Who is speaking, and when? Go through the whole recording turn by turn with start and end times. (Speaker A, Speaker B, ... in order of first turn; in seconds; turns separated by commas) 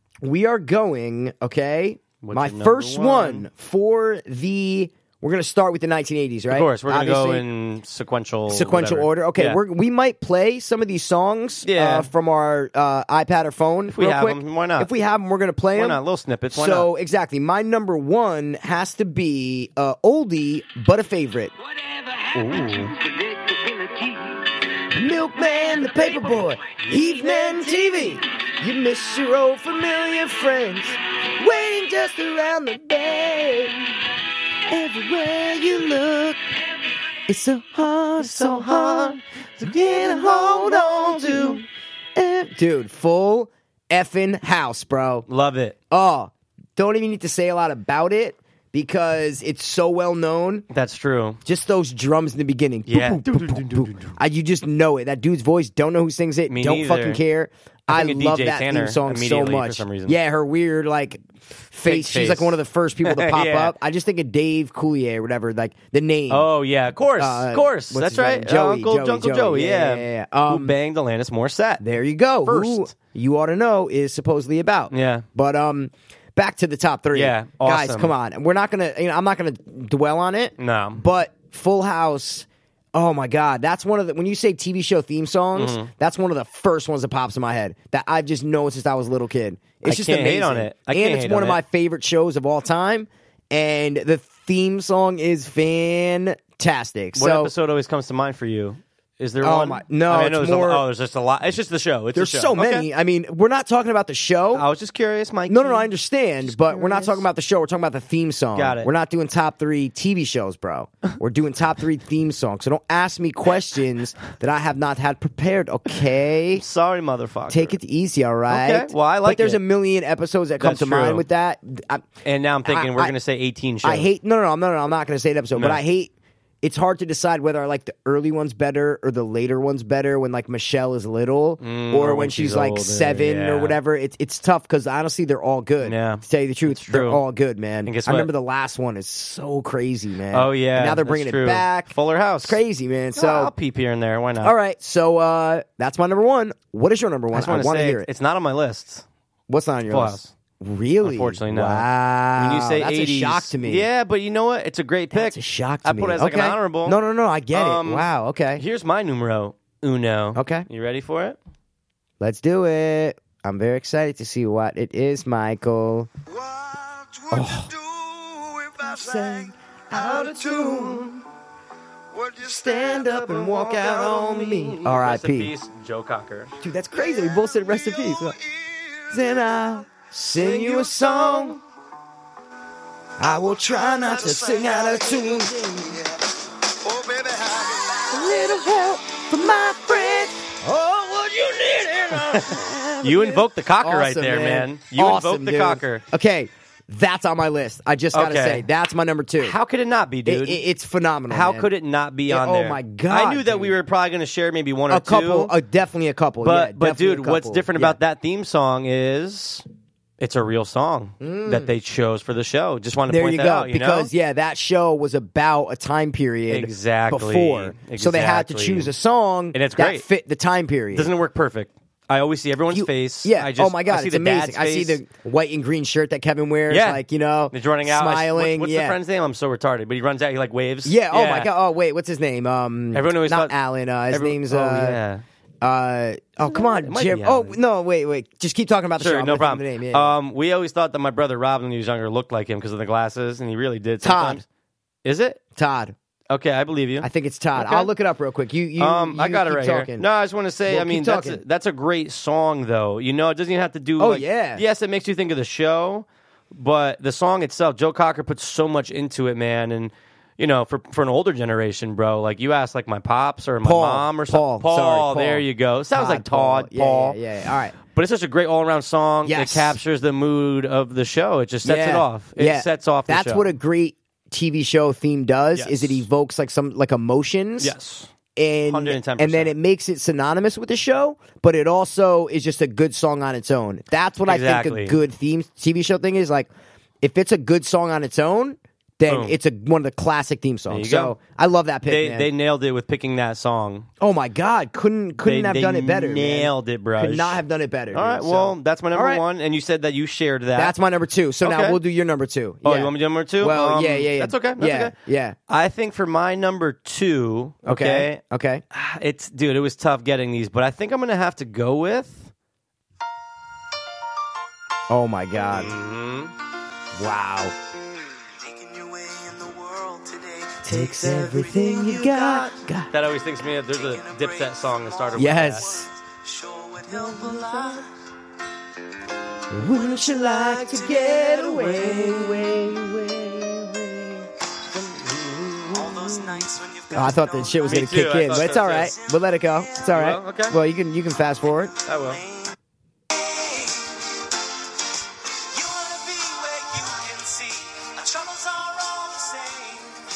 Speaker A: 0.2-7.4, Speaker B: 2.2-3.5, Speaker B: 6.5-9.6, Speaker A: 8.5-16.0, Speaker B: 11.6-12.1, Speaker B: 13.9-14.9, Speaker B: 15.7-16.9, Speaker A: 16.5-21.5, Speaker C: 21.8-24.4, Speaker B: 22.3-22.9, Speaker A: 24.9-33.8, Speaker C: 25.6-26.2, Speaker A: 34.7-36.4, Speaker A: 37.3-45.3, Speaker B: 38.2-41.6, Speaker B: 45.3-45.8, Speaker A: 45.9-50.6, Speaker B: 50.7-51.4, Speaker A: 51.5-66.5, Speaker B: 52.9-54.2, Speaker B: 56.5-57.2, Speaker B: 57.9-60.2, Speaker B: 61.9-63.8, Speaker B: 66.3-71.8, Speaker A: 67.2-70.8, Speaker A: 71.8-97.5, Speaker B: 72.5-72.9, Speaker B: 74.9-75.3, Speaker B: 77.1-78.1, Speaker B: 80.6-81.0, Speaker B: 85.5-85.9, Speaker B: 89.8-91.6, Speaker B: 97.2-102.9, Speaker A: 99.4-100.8, Speaker A: 102.2-104.7, Speaker B: 104.5-105.9, Speaker A: 105.5-116.6, Speaker B: 106.4-107.3, Speaker B: 108.5-108.9, Speaker B: 116.6-117.8, Speaker A: 117.5-122.1, Speaker B: 118.5-119.6, Speaker B: 120.6-121.3, Speaker B: 122.2-124.1, Speaker A: 122.7-123.2, Speaker A: 123.8-126.1, Speaker B: 125.6-125.8, Speaker A: 126.6-143.5, Speaker B: 131.6-133.8, Speaker B: 135.8-137.2, Speaker B: 137.8-138.3, Speaker B: 140.3-142.6, Speaker B: 143.2-144.5, Speaker A: 144.4-148.1, Speaker B: 147.3-149.1, Speaker A: 149.5-153.9, Speaker B: 149.9-150.3, Speaker B: 151.0-157.0, Speaker A: 155.1-158.6, Speaker B: 157.5-161.4, Speaker A: 160.3-160.7, Speaker A: 162.2-166.1, Speaker A: 167.3-167.8, Speaker A: 168.6-171.2, Speaker B: 169.9-171.1, Speaker A: 172.2-175.5, Speaker B: 173.0-176.6, Speaker A: 176.6-178.4, Speaker A: 179.1-181.6, Speaker B: 180.4-181.6, Speaker A: 183.2-186.1, Speaker C: 186.9-187.9, Speaker A: 188.1-199.6, Speaker B: 192.3-196.0, Speaker B: 198.1-198.7, Speaker B: 199.4-200.6, Speaker A: 200.2-201.7, Speaker B: 201.3-205.5, Speaker A: 202.3-203.8, Speaker A: 204.9-208.0, Speaker B: 206.4-209.7, Speaker B: 210.2-214.1, Speaker A: 211.2-211.7, Speaker A: 213.1-221.1, Speaker B: 216.5-218.9, Speaker B: 219.5-220.1, Speaker B: 220.9-225.0, Speaker A: 222.7-229.0, Speaker B: 226.7-231.5, Speaker A: 230.8-235.0, Speaker B: 232.9-233.6, Speaker B: 234.1-235.2, Speaker A: 235.6-240.2, Speaker B: 236.4-237.6, Speaker B: 239.0-244.4, Speaker A: 244.0-244.4, Speaker B: 245.0-245.4, Speaker A: 245.6-245.9, Speaker B: 246.3-247.9, Speaker A: 247.0-250.1, Speaker B: 248.8-267.2, Speaker A: 250.7-251.4, Speaker A: 254.0-254.6, Speaker A: 263.6-267.8, Speaker B: 267.8-273.5, Speaker A: 269.2-269.8, Speaker A: 271.6-277.7, Speaker B: 275.6-276.1, Speaker B: 277.6-278.1, Speaker A: 278.4-286.5, Speaker B: 278.7-279.6, Speaker B: 284.3-285.0, Speaker A: 287.0-292.3, Speaker B: 289.1-289.4, Speaker B: 290.7-291.2, Speaker B: 291.9-293.9, Speaker A: 294.0-299.2, Speaker B: 295.2-297.4, Speaker B: 297.9-300.8, Speaker A: 300.6-305.4, Speaker B: 301.4-301.8, Speaker B: 302.6-305.0, Speaker B: 305.5-308.2, Speaker A: 307.6-308.6, Speaker B: 308.7-312.3, Speaker A: 314.9-315.7, Speaker B: 315.5-316.3, Speaker A: 316.9-317.6, Speaker C: 318.4-322.5, Speaker A: 320.6-322.9, Speaker B: 320.7-321.3, Speaker B: 322.2-325.8, Speaker C: 323.7-327.9, Speaker A: 325.2-325.9, Speaker A: 327.0-327.8, Speaker A: 329.5-334.2, Speaker B: 330.9-332.6, Speaker B: 334.7-336.4, Speaker C: 335.7-337.8, Speaker A: 336.9-341.8, Speaker B: 337.6-339.0, Speaker B: 339.9-340.6, Speaker B: 341.8-342.2, Speaker C: 341.9-342.5, Speaker C: 345.5-350.0